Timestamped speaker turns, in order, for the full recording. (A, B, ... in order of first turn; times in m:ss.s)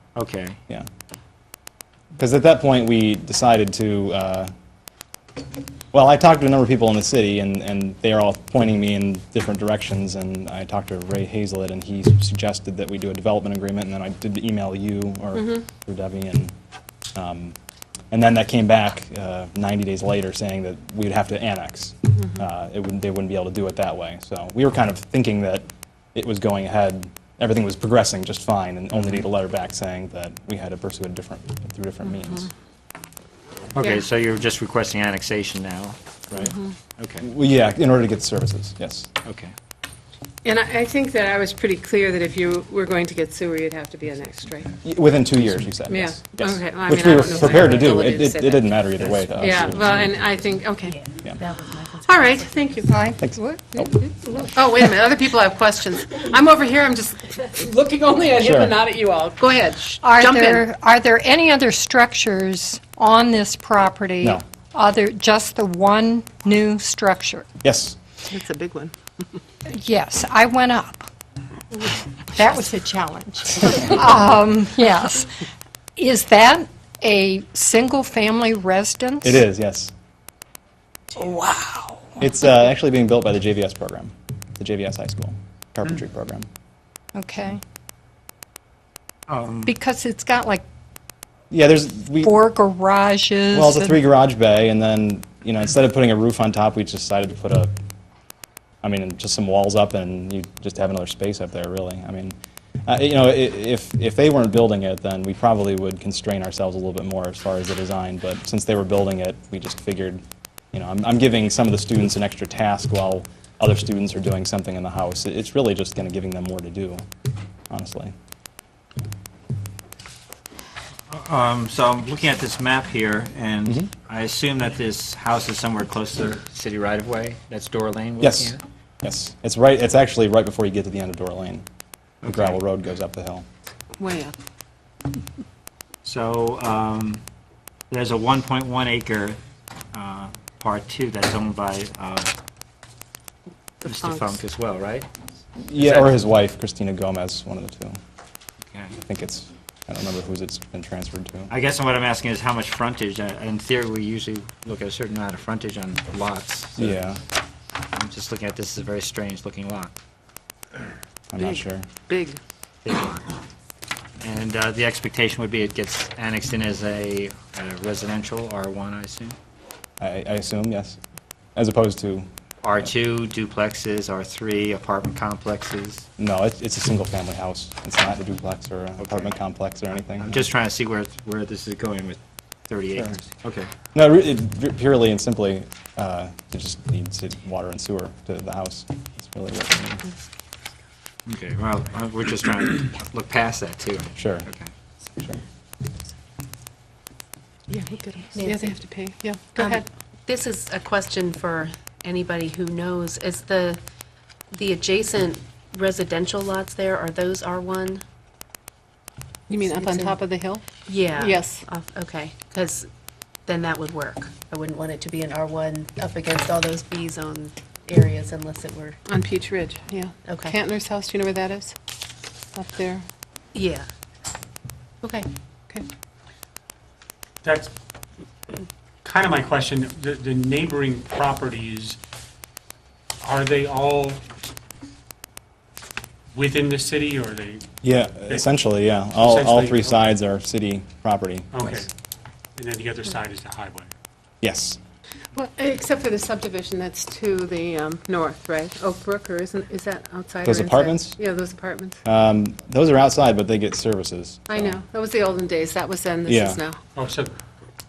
0:00.1-0:00.6 A
0:02.2-0:04.5 B
0:05.9-0:16.5 B
0:15.3-0:15.6 C
0:17.1-0:17.6 B
0:18.1-0:32.5 B
0:29.0-0:29.3 A
0:33.7-0:36.0 A
0:37.0-0:37.3 A
0:37.2-0:39.1 B
0:39.2-0:39.5 A
0:40.4-0:44.8 C
0:44.8-0:50.2 B
0:45.9-0:51.0 C
0:50.9-0:52.8 D
0:52.0-0:53.1 C
0:52.9-0:53.8 E
0:53.2-0:53.9 B
0:54.4-1:00.6 C
0:58.4-0:58.8 B
1:00.0-1:07.5 E
1:07.6-1:08.0 B
1:08.2-1:09.0 C
1:09.7-1:11.1 E
1:11.9-1:15.4 E
1:16.0-1:19.4 E
1:19.2-1:19.9 B
1:21.2-1:22.2 E
1:22.2-1:26.5 B
1:27.2-1:27.6 E
1:29.3-1:29.7 A
1:29.6-1:30.6 E
1:31.5-1:32.4 B
1:32.2-1:34.0 E
1:33.5-1:37.7 B
1:38.8-1:50.2 B
1:50.7-1:57.0 B
1:57.7-1:58.1 B
2:01.1-2:08.6 A
2:08.2-2:11.6 B
2:12.2-2:12.6 A
2:12.2-2:13.4 B
2:14.0-2:14.3 C
2:16.0-2:17.2 A
2:17.9-2:19.4 A
2:19.9-2:22.3 A
2:23.8-2:25.1 A
2:23.8-2:24.2 C
2:25.6-2:28.0 B
2:25.8-2:26.2 A
2:28.7-2:29.0 A
2:29.0-2:31.5 B
2:31.5-2:37.0 A
2:36.8-2:37.2 B
2:37.9-2:39.9 A
2:41.3-2:41.9 B
2:41.4-2:42.4 C
2:42.8-2:43.3 A
2:44.2-2:49.4 A
2:50.0-2:51.0 B
2:51.6-2:52.3 B
2:52.6-2:56.0 A
2:56.2-3:00.5 B
2:59.0-2:59.3 A
3:00.2-3:03.7 A
3:03.9-3:10.1 B
3:11.2-3:14.7 A
3:14.2-3:14.5 B
3:17.7-3:19.8 C
3:18.3-3:18.8 D
3:19.6-3:23.8 D
3:24.5-3:28.0 D
3:29.5-3:30.6 C
3:29.6-3:30.2 D
3:30.8-3:32.9 D
3:31.2-3:31.6 C
3:33.4-3:39.0 D
3:39.1-3:41.8 C
3:40.2-3:40.6 D
3:42.6-3:43.1 C
3:43.5-3:43.9 D
3:45.0-3:45.3 D
3:47.4-3:47.7 F
3:49.0-3:52.0 F
3:53.2-3:54.2 F
3:56.3-3:57.7 F
3:57.8-4:01.9 B
3:59.1-4:00.0 F
4:01.5-4:01.9 F
4:02.6-4:03.9 F
4:04.4-4:04.8 B
4:05.3-4:12.0 C
4:10.4-4:11.2 B
4:12.0-4:14.8 B
4:14.5-4:16.8 C
4:16.2-4:16.6 B
4:16.9-4:17.3 F